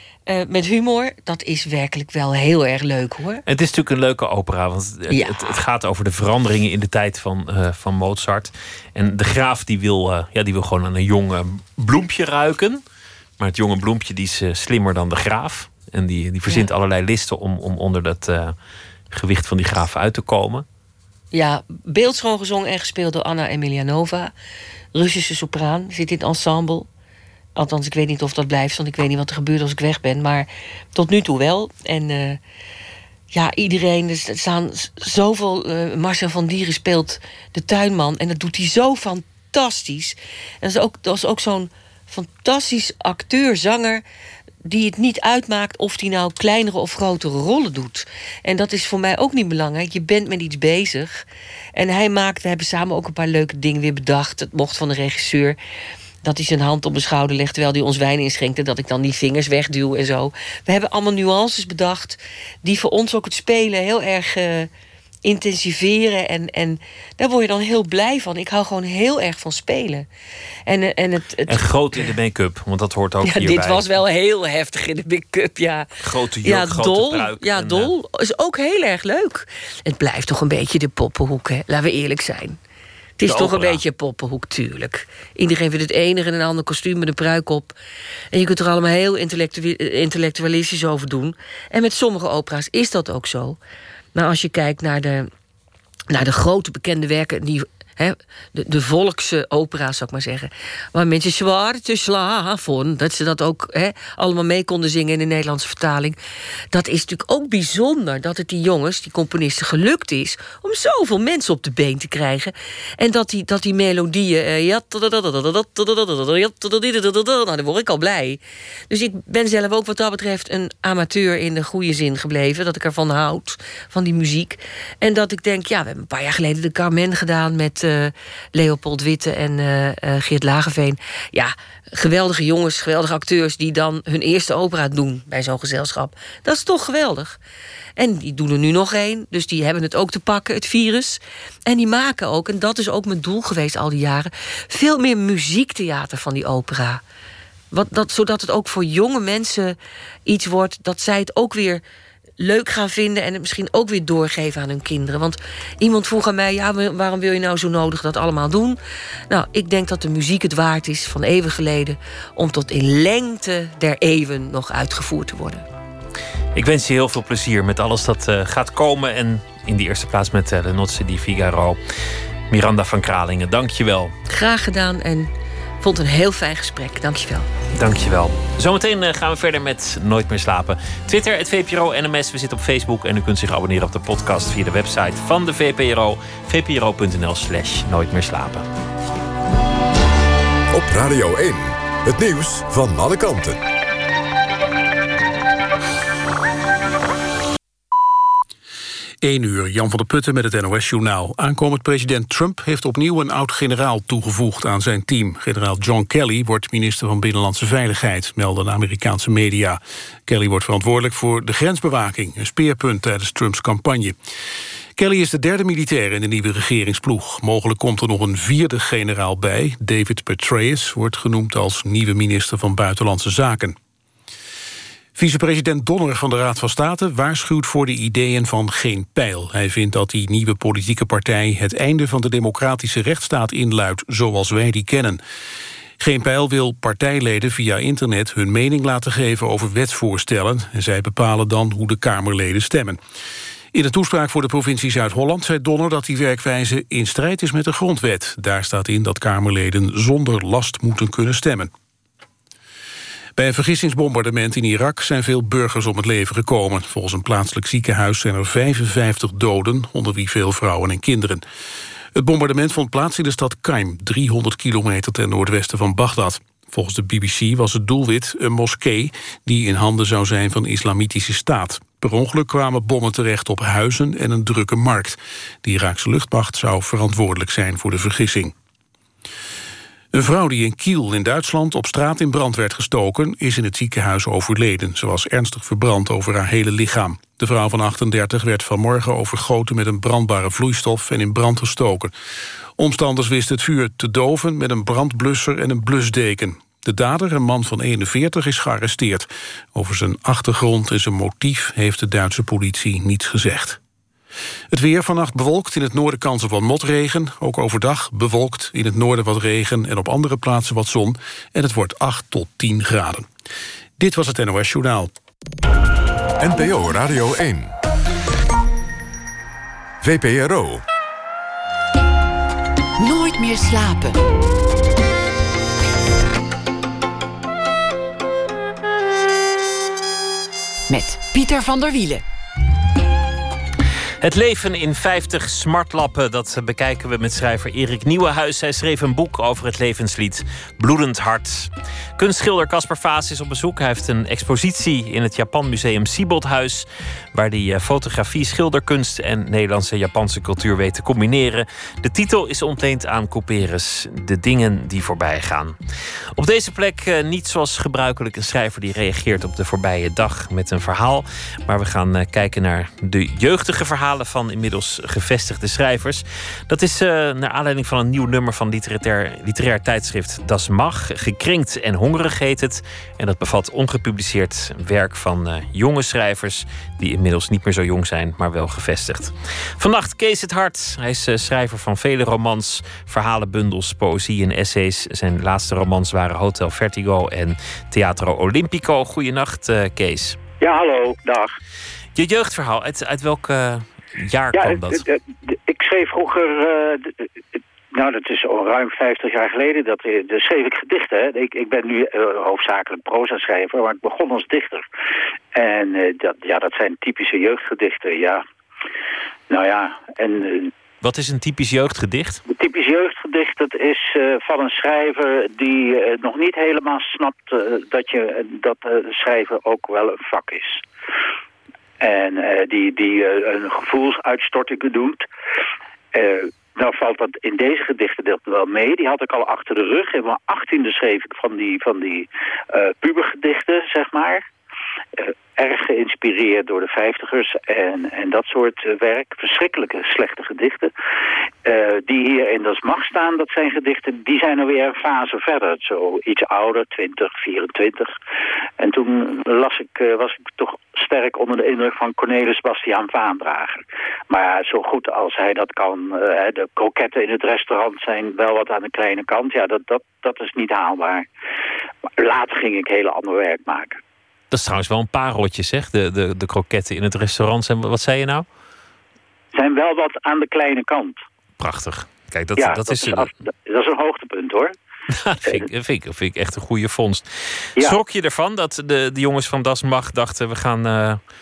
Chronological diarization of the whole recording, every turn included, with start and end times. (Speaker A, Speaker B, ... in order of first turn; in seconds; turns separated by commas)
Speaker A: 0.3-3.4, Speaker B: 3.5-12.8, Speaker A: 5.1-5.5, Speaker B: 13.4-18.6, Speaker B: 19.1-20.6, Speaker A: 21.3-24.3, Speaker A: 24.9-26.9, Speaker A: 27.6-32.4, Speaker A: 33.3-44.0, Speaker A: 44.6-51.2, Speaker A: 51.8-55.6, Speaker A: 56.2-64.7, Speaker A: 65.2-70.1, Speaker A: 70.7-71.7, Speaker B: 71.5-73.9, Speaker A: 73.2-75.9, Speaker B: 76.0-77.9, Speaker A: 76.4-82.6, Speaker A: 83.2-87.7, Speaker B: 83.2-83.8, Speaker A: 88.3-93.6, Speaker A: 94.1-95.3, Speaker A: 96.1-106.2, Speaker A: 106.7-137.4, Speaker A: 138.0-147.0, Speaker A: 147.7-151.8, Speaker A: 152.4-158.8, Speaker A: 159.3-165.6, Speaker B: 166.5-171.8, Speaker B: 172.5-174.2, Speaker A: 174.3-177.5, Speaker B: 177.7-188.7, Speaker C: 190.7-193.6, Speaker D: 199.2-214.2, Speaker D: 214.9-223.8, Speaker D: 225.2-235.2, Speaker D: 236.0-243.0, Speaker D: 243.7-251.7, Speaker D: 253.4-261.4, Speaker D: 262.1-278.5, Speaker D: 280.1-292.1, Speaker D: 292.8-303.8, Speaker D: 304.7-313.3, Speaker D: 314.0-315.1, Speaker C: 316.4-317.7, Speaker C: 320.0-320.8, Speaker E: 323.0-324.3, Speaker E: 330.9-332.2, Speaker B: 334.2-355.8, Speaker B: 356.3-390.4, Speaker F: 390.6-391.5, Speaker B: 392.1-395.0, Speaker F: 394.5-404.9, Speaker F: 405.5-408.4, Speaker F: 409.5-410.7, Speaker B: 411.0-412.4, Speaker F: 412.5-420.8, Speaker F: 422.0-425.2, Speaker F: 426.1-434.4, Speaker F: 435.2-440.9, Speaker F: 441.6-448.1, Speaker F: 448.8-461.3, Speaker F: 462.2-464.0, Speaker B: 464.5-468.4, Speaker F: 469.5-471.2, Speaker B: 471.6-473.3, Speaker F: 472.6-474.7, Speaker B: 475.1-481.2